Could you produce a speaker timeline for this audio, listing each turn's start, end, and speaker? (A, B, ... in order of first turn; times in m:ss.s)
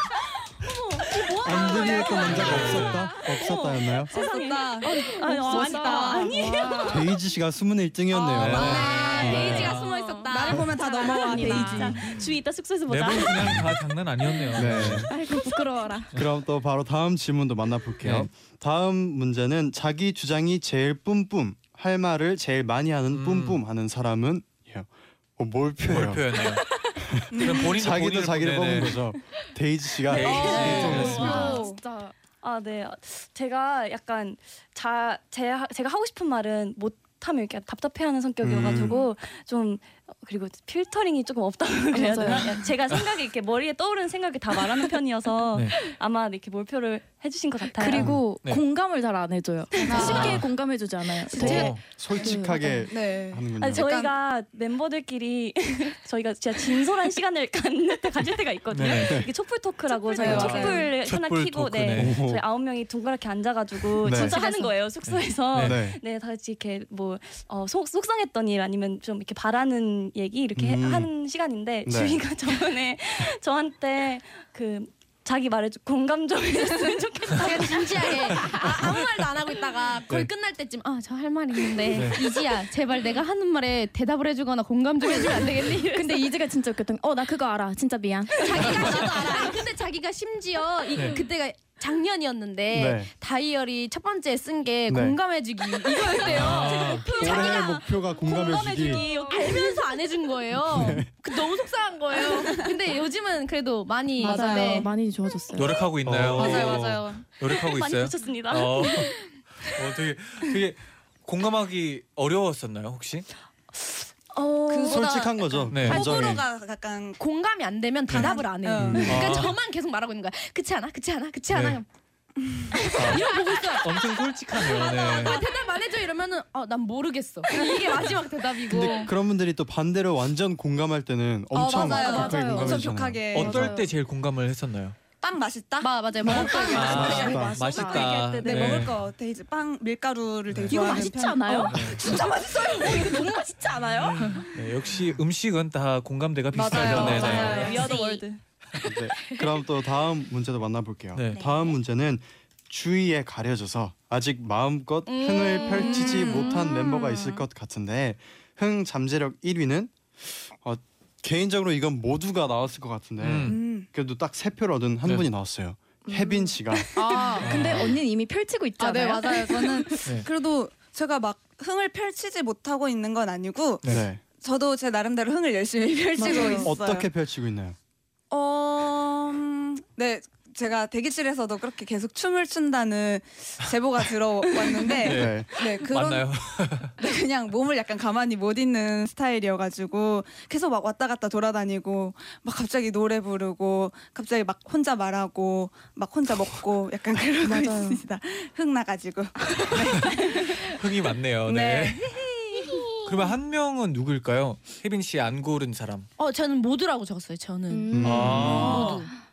0:00.7-0:03.0 A
0:01.3-0:06.9 B
0:01.4-0:04.1 C
0:02.2-0:03.1 D
0:04.0-0:06.4 E
0:04.8-0:06.8 A
0:04.8-0:07.1 F
0:06.8-0:09.7 C
0:08.3-0:09.9 D
0:08.4-0:11.9 A
0:08.7-0:09.2 B
0:10.3-0:12.1 E
0:10.5-0:13.6 B
0:10.8-0:12.1 F
0:12.9-0:15.1 D
0:14.5-0:15.1 C
0:14.8-0:16.1 F
0:16.1-0:26.4 C
0:18.0-0:18.3 D
0:23.1-0:23.6 D
0:25.9-0:26.7 D
0:27.0-0:31.4 C
0:27.3-0:27.7 E
0:27.3-0:29.0 D
0:30.1-0:31.4 D
0:30.2-0:31.3 E
0:30.3-0:31.7 B
0:30.4-0:31.6 A
0:30.4-0:32.1 F
0:32.4-0:48.1 B
0:38.4-0:39.0 C
0:41.9-0:42.6 F
0:47.7-0:52.9 F
0:48.0-0:48.6 D
0:49.8-0:50.2 B
0:49.8-0:50.5 E
0:49.9-0:50.5 D
0:51.3-0:51.7 E
0:51.3-0:53.9 C
0:51.4-0:51.8 D
0:52.9-0:54.2 E
0:53.6-1:18.7 B
0:58.7-0:59.2 D
0:59.0-0:59.3 C
0:59.9-1:00.7 A
1:00.1-1:00.8 E
1:00.2-1:02.2 D
1:01.9-1:02.4 C
1:04.0-1:04.4 C
1:04.1-1:04.8 A
1:05.0-1:05.8 D
1:05.6-1:06.0 C
1:10.6-1:11.1 C
1:11.8-1:12.2 C
1:17.3-1:26.3 A
1:21.9-1:22.2 D
1:25.8-1:29.4 F
1:28.4-1:44.9 A
1:32.7-1:33.1 C
1:34.9-1:35.2 C
1:36.2-1:37.1 D
1:36.8-1:37.6 B
1:37.2-1:39.0 C
1:38.4-1:39.6 B
1:40.5-1:41.1 C
1:44.2-1:45.8 F
1:44.2-1:44.9 E
1:45.5-1:53.3 D
1:46.0-1:47.0 C
1:46.4-1:47.2 E
1:47.4-1:49.3 B
1:54.3-1:55.1 A
1:54.7-1:57.2 E
1:54.8-1:56.4 C
1:55.7-1:56.2 D
1:55.9-1:56.4 A
1:57.2-2:01.8 A
1:58.1-1:59.5 D
1:58.1-1:59.3 E
1:58.9-1:59.2 C
2:01.5-2:01.8 D
2:02.7-2:09.1 A
2:02.9-2:05.4 D
2:07.5-2:08.1 E
2:08.7-2:13.5 C
2:11.5-2:13.8 E
2:11.8-2:12.9 F
2:12.0-2:12.4 A
2:13.3-2:15.0 D
2:13.4-2:13.8 F
2:15.2-2:23.4 E
2:15.8-2:17.2 A
2:16.2-2:18.2 F
2:16.4-2:18.8 B
2:16.7-2:19.0 D
2:16.9-2:17.6 C
2:20.5-2:21.0 D
2:20.7-2:24.4 F
2:21.7-2:22.1 D
2:24.1-2:27.8 D
2:26.5-2:28.0 E
2:26.7-2:28.4 B
2:27.1-2:28.2 A
2:28.8-2:46.9 C
2:31.1-2:31.4 D
2:35.0-2:36.6 A
2:36.0-2:36.4 E
2:36.4-2:37.2 F
2:43.2-2:43.6 D
2:43.4-2:43.9 E
2:46.1-2:50.1 F
2:47.0-2:47.7 E
2:47.4-2:48.0 D
2:48.8-2:57.1 E
2:53.8-2:54.2 C
2:56.2-2:56.7 F
2:56.6-2:57.8 C
2:58.3-3:06.3 E
3:04.9-3:06.9 D
3:05.0-3:05.5 C
3:07.0-3:20.7 E
3:17.4-3:18.0 F
3:20.6-3:22.2 D
3:21.4-3:22.8 E
3:23.0-3:26.1 D
3:26.2-3:29.1 A
3:27.7-3:29.1 F
3:27.9-3:28.7 C
3:28.0-3:29.0 D
3:28.4-3:29.0 E